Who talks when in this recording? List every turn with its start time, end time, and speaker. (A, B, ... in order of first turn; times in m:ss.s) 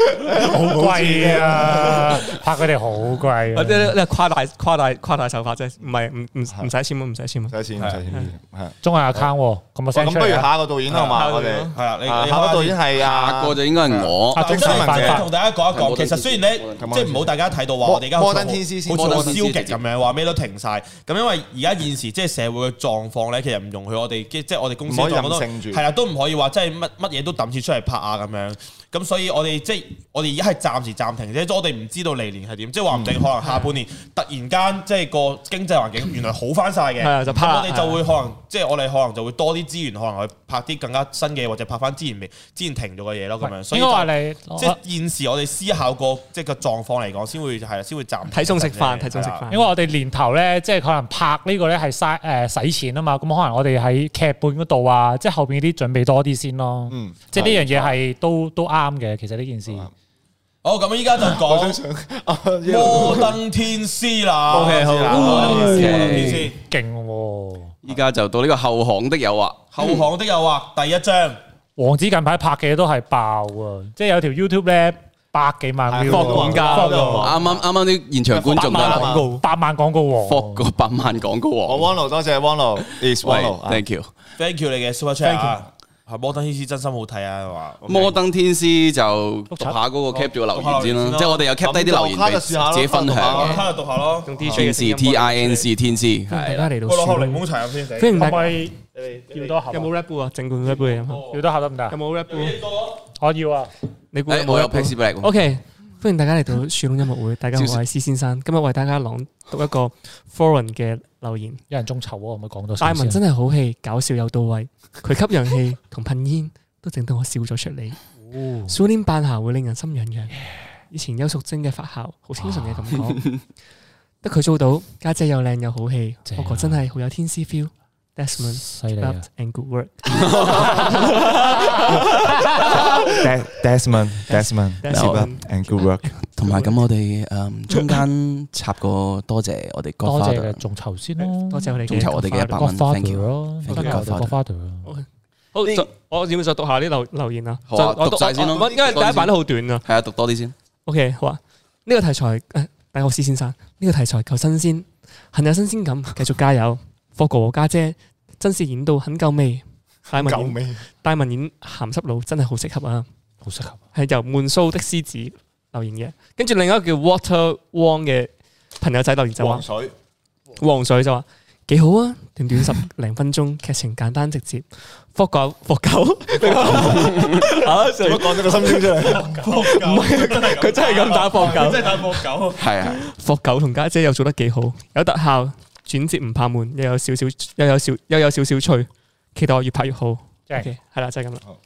0:00.2-0:02.2 A
0:00.2-0:04.0 B
0:03.5-0:07.6 C
0:07.5-0:09.3 A
0:07.8-0:08.0 D
0:08.8-0:10.5 B
0:09.9-0:13.6 A
0:10.9-0:11.2 D
0:10.9-0:11.8 C
0:11.7-0:12.8 D
0:13.0-0:14.8 E
0:13.8-0:49.4 D
0:14.3-0:15.3 B
0:14.4-0:15.3 A
0:15.7-0:16.8 E
0:16.8-0:17.3 A
0:17.8-0:19.5 A
0:18.9-0:19.8 E
0:24.9-0:25.8 A
0:33.4-0:33.7 C
0:37.0-0:38.0 C
0:43.6-0:44.8 B
0:48.3-0:49.7 C
0:49.5-0:59.9 B
0:56.9-0:57.9 A
1:00.6-1:01.8 D
1:01.2-1:03.4 A
1:02.6-1:06.6 D
1:04.5-1:06.2 A
1:04.5-1:06.4 C
1:05.2-1:07.7 B
1:05.6-1:06.5 E
1:07.8-1:10.0 E
1:09.7-1:11.4 D
1:11.8-1:17.4 B
1:15.9-1:17.7 A
1:16.0-1:17.3 C
1:17.2-1:19.1 E
1:18.3-1:19.3 A
1:18.6-1:19.4 C
1:18.7-1:20.6 B
1:20.2-1:21.9 E
1:21.6-1:23.8 A
1:23.2-1:24.1 E
1:24.4-1:28.2 D
1:27.9-1:33.6 E
1:29.5-1:29.8 B
1:30.1-1:31.5 D
1:31.6-1:33.6 A
1:33.2-1:34.3 D
1:34.2-1:35.7 C
1:34.4-1:34.7 A
1:34.5-1:36.7 E
1:36.3-1:38.6 C
1:36.8-1:39.6 D
1:38.2-1:38.8 B
1:39.3-1:39.9 B
1:39.7-1:41.4 C
1:41.3-1:42.0 B
1:41.9-1:42.7 C
1:42.3-1:43.0 D
1:43.2-1:43.7 B
1:44.1-1:51.6 C
1:44.3-1:45.3 E
1:47.6-1:47.8 E
1:51.7-1:53.2 B
1:52.8-1:58.0 C
1:58.3-1:58.7 B
1:58.7-2:00.4 C
2:00.9-2:03.4 C
2:02.4-2:03.0 B
2:04.2-2:13.0 C
2:06.3-2:06.8 B
2:08.6-2:09.2 B
2:10.3-2:10.7 E
2:13.1-2:16.1 A
2:14.3-2:15.9 C
2:14.9-2:15.3 E
2:16.4-2:20.6 E
2:16.4-2:16.8 C
2:17.7-2:18.0 C
2:20.0-2:24.9 B
2:21.5-2:22.7 C
2:21.9-2:24.4 E
2:23.7-2:24.0 C
2:24.8-2:29.8 C
2:27.7-2:30.5 E
2:28.5-2:29.0 A
2:30.9-2:43.1 C
2:40.1-2:40.8 A
2:43.4-2:43.8 B
2:43.9-2:49.6 C
2:49.4-2:49.9 A
2:50.6-3:02.2 C
2:57.0-2:57.4 E
2:57.8-2:59.4 A
2:59.0-3:02.7 D
3:02.6-3:03.0 E
3:02.8-3:11.4 C